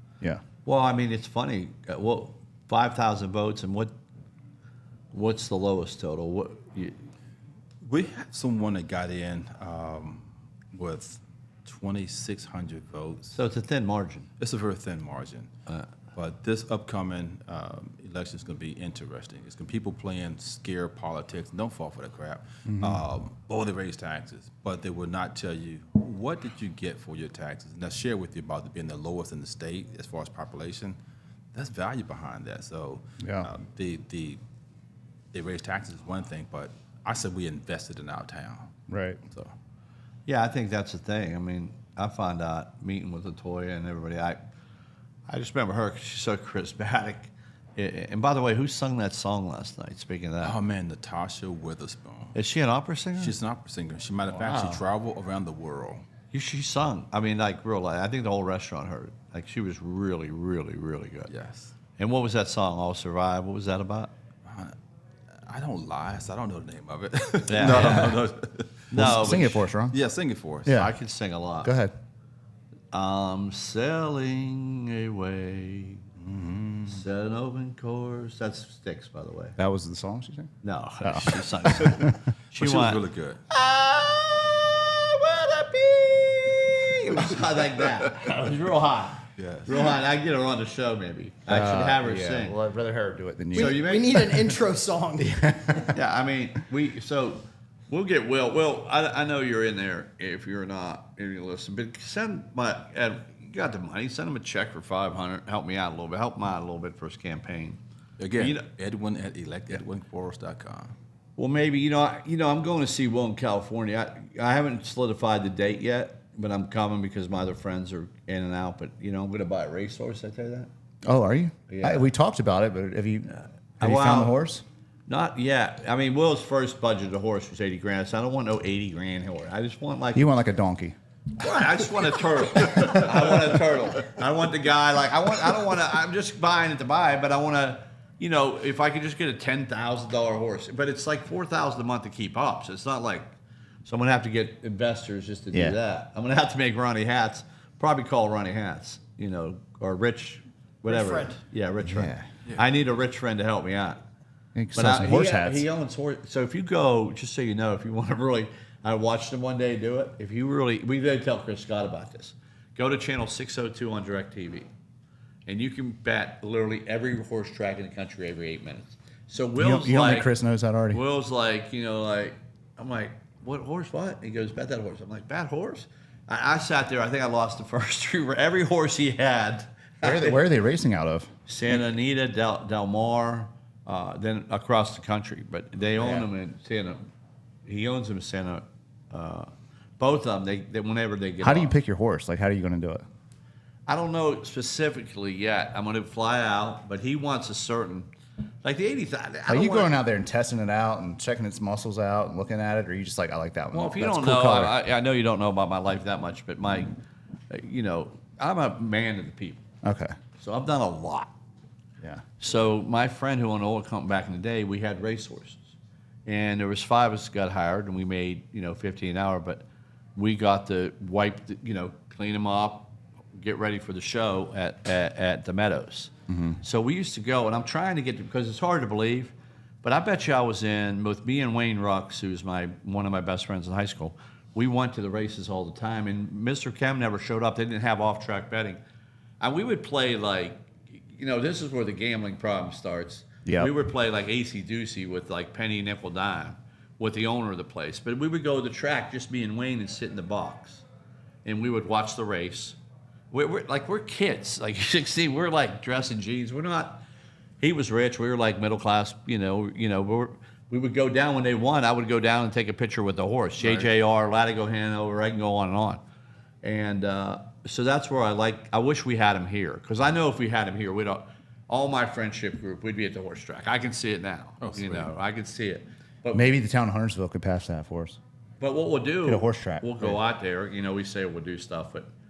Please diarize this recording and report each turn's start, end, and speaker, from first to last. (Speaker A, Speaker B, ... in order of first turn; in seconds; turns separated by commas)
Speaker A: 0.6-3.9, Speaker A: 5.1-7.0, Speaker B: 7.8-13.4, Speaker A: 13.3-14.3, Speaker B: 14.4-15.5, Speaker B: 16.1-31.0, Speaker C: 22.6-23.0, Speaker B: 31.5-34.4, Speaker C: 33.2-33.5, Speaker B: 35.3-38.7, Speaker C: 38.9-39.2, Speaker A: 40.3-44.4, Speaker A: 45.3-50.5, Speaker B: 50.4-52.4, Speaker A: 52.3-53.3, Speaker B: 53.1-56.0, Speaker A: 54.5-54.7, Speaker A: 56.3-61.3, Speaker B: 61.3-61.7, Speaker A: 62.0-64.1, Speaker B: 64.4-64.8, Speaker B: 65.3-69.4, Speaker A: 67.5-68.2, Speaker C: 67.7-68.1, Speaker A: 68.9-69.7, Speaker C: 68.9-70.0, Speaker B: 69.9-70.8, Speaker C: 70.7-70.9, Speaker A: 70.7-71.7, Speaker C: 71.6-71.9, Speaker A: 72.9-76.0, Speaker B: 76.2-77.0, Speaker A: 76.9-79.5, Speaker C: 79.6-80.5, Speaker A: 80.6-92.5, Speaker C: 81.0-82.2, Speaker B: 81.6-82.0, Speaker B: 82.6-83.4, Speaker B: 89.3-89.8, Speaker C: 91.5-94.6, Speaker A: 93.5-94.3, Speaker D: 93.5-95.3, Speaker C: 95.2-96.0, Speaker A: 95.9-107.8, Speaker B: 108.2-110.9, Speaker A: 108.4-108.6, Speaker A: 111.4-120.7, Speaker C: 121.0-124.6, Speaker A: 121.7-122.1, Speaker A: 123.8-124.4, Speaker A: 125.1-130.3, Speaker C: 130.1-130.9, Speaker A: 131.4-143.3, Speaker A: 143.8-154.0, Speaker D: 150.9-151.3, Speaker C: 151.8-152.2, Speaker C: 154.5-155.6, Speaker A: 154.7-164.7, Speaker A: 165.5-170.3, Speaker C: 169.6-171.0, Speaker A: 170.9-180.4, Speaker C: 180.0-181.7, Speaker A: 181.5-187.0, Speaker C: 186.0-186.3, Speaker A: 187.6-191.7, Speaker C: 191.4-193.0, Speaker A: 193.9-198.1, Speaker A: 198.6-200.0, Speaker C: 199.5-204.7, Speaker A: 203.7-206.9, Speaker A: 207.5-209.6, Speaker C: 209.8-210.1, Speaker A: 210.4-211.3, Speaker A: 212.4-215.7, Speaker A: 216.2-219.6, Speaker A: 220.2-226.1, Speaker C: 226.3-226.6, Speaker A: 226.6-238.8, Speaker A: 239.4-250.8, Speaker C: 243.4-243.7, Speaker A: 251.4-252.8, Speaker A: 253.3-257.0, Speaker A: 257.6-266.0, Speaker B: 263.6-263.9, Speaker A: 266.6-276.4, Speaker B: 274.6-275.1, Speaker C: 276.3-278.2, Speaker A: 278.6-282.1, Speaker C: 279.2-280.2